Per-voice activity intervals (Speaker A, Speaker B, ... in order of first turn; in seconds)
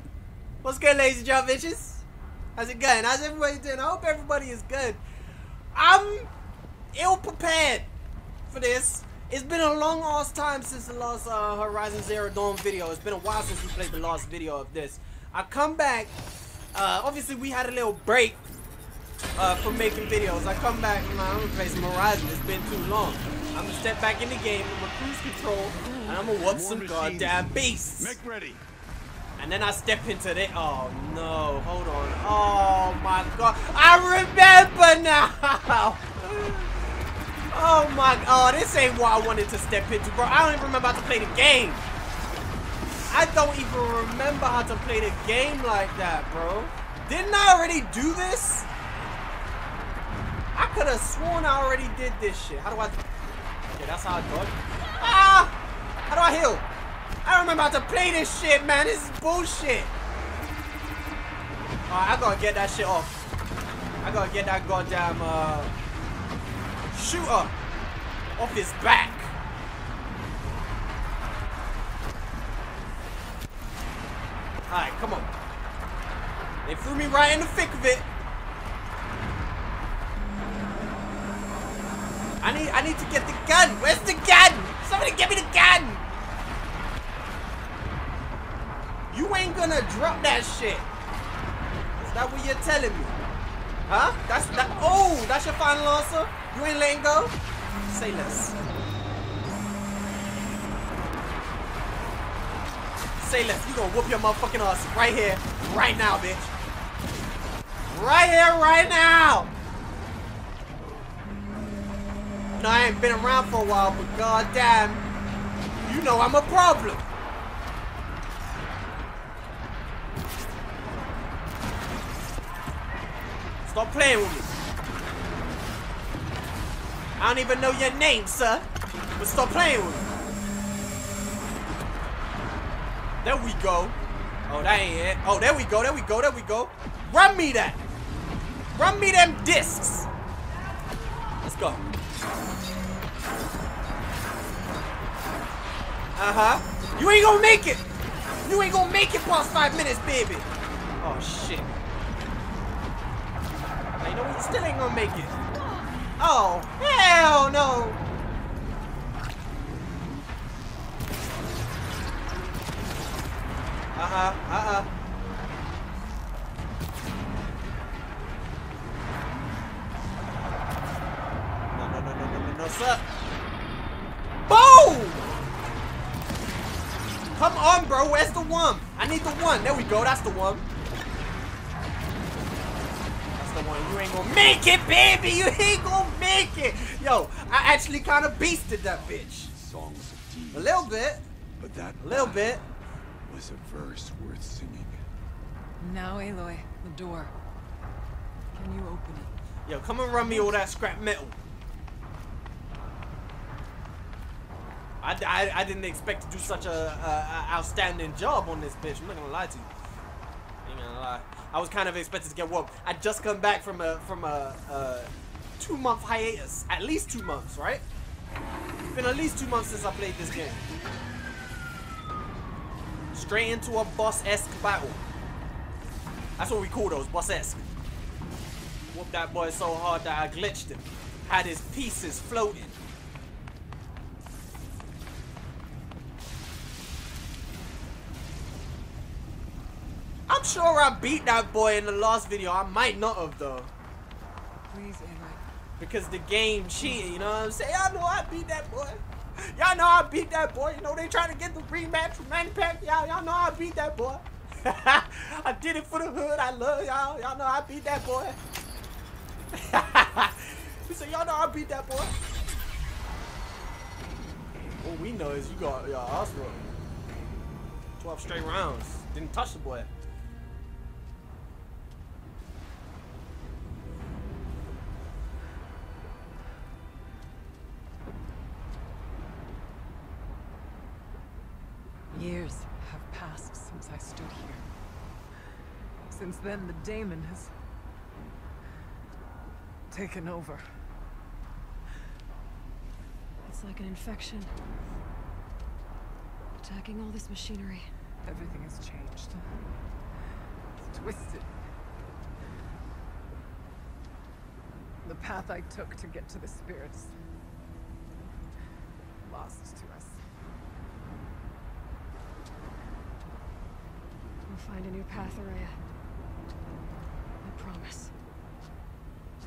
Speaker A: 0.6-2.0, 2.5-5.0, 5.7-6.3, 6.9-7.9, 8.5-16.1, 16.7-18.4, 19.4-28.2, 29.4-36.7, 37.5-41.8, 43.1-48.7, 50.5-53.0, 53.7-55.5, 56.1-56.7, 57.2-59.9, 61.9-63.2, 64.0-65.7, 66.9-67.5, 68.4-69.3, 74.7-75.3, 76.6-78.1, 82.4-86.0, 89.1-90.9, 92.0-93.1, 93.9-97.3, 97.9-98.6, 103.2-106.5, 107.9-109.5, 112.5-115.0, 115.8-117.0, 123.6-124.5, 127.2-128.7, 129.2-130.1, 133.2-133.9, 134.5-137.8, 138.7-140.1, 141.4-141.8, 146.2-147.8, 148.4-150.5, 151.0-151.7, 154.0-155.3, 156.2-158.0, 163.9-164.9, 171.7-173.0, 174.4-175.3, 177.3-180.6, 183.4-189.5, 190.5-191.2, 192.0-192.6, 199.7-201.3, 205.0-209.7, 210.6-217.8, 218.9-220.7, 223.1-225.0, 226.4-227.7, 228.9-232.8, 240.3-243.7, 245.8-258.4, 259.5-262.1, 264.8-266.7, 268.0-269.9
Speaker B: 25.9-26.2, 293.4-294.5, 296.6-297.9, 314.5-315.8, 317.4-318.1
Speaker C: 26.4-28.6, 188.7-191.0, 191.6-192.6, 193.2-195.0
Speaker D: 195.8-197.3, 198.5-199.3, 200.2-200.5, 244.7-245.4, 282.1-284.6, 286.1-287.5, 289.9-290.8, 298.2-299.6, 300.8-301.5, 305.0-307.1, 309.2-310.2